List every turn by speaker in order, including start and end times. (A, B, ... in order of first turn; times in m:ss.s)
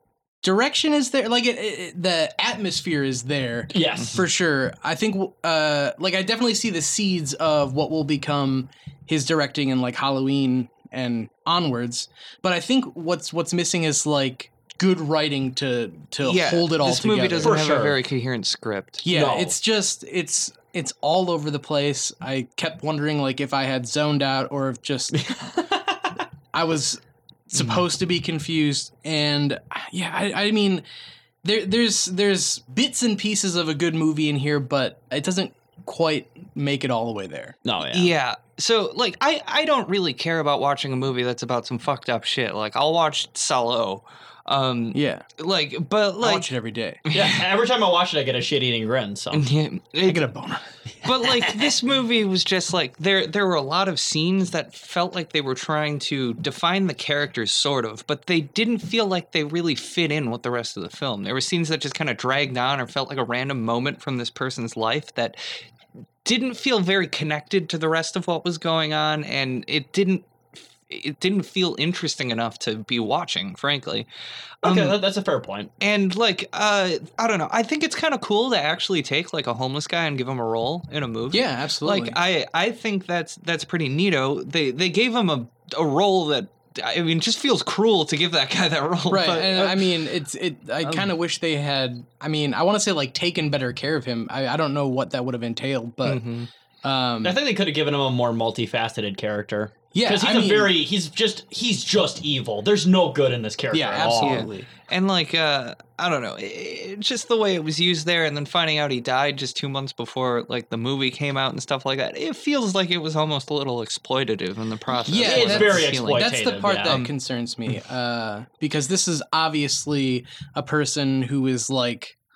0:00.4-0:17.6 A
0:03.7-0:04.2 B
0:16.2-0:19.0 C
0:17.4-0:18.0 B
0:19.0-0:25.2 A
0:19.1-0:19.5 B
0:25.1-0:26.2 B
0:26.5-0:27.0 A
0:27.5-0:30.8 A
0:31.4-0:37.6 A
0:37.6-0:38.1 B
0:37.9-0:46.5 C
0:44.9-0:45.2 A
0:46.2-0:47.0 A
0:47.0-0:47.4 C
0:47.1-0:49.4 B
0:49.3-0:50.3 C
0:50.0-0:50.6 A
0:51.0-0:51.7 B
0:51.0-1:05.4 C
1:06.2-1:10.3 C
1:10.9-1:14.1 C
1:14.6-1:15.0 C
1:14.6-1:15.7 B
1:15.8-1:29.9 C
1:21.3-1:22.2 A
1:29.1-1:36.2 A
1:30.8-1:31.1 C
1:36.0-1:36.5 C
1:36.8-1:37.4 A
1:37.2-1:44.7 B
1:39.9-1:40.7 A
1:43.7-1:44.5 A
1:44.2-1:56.3 C
1:55.0-2:02.1 A
1:55.2-1:57.0 B
1:56.9-1:57.1 C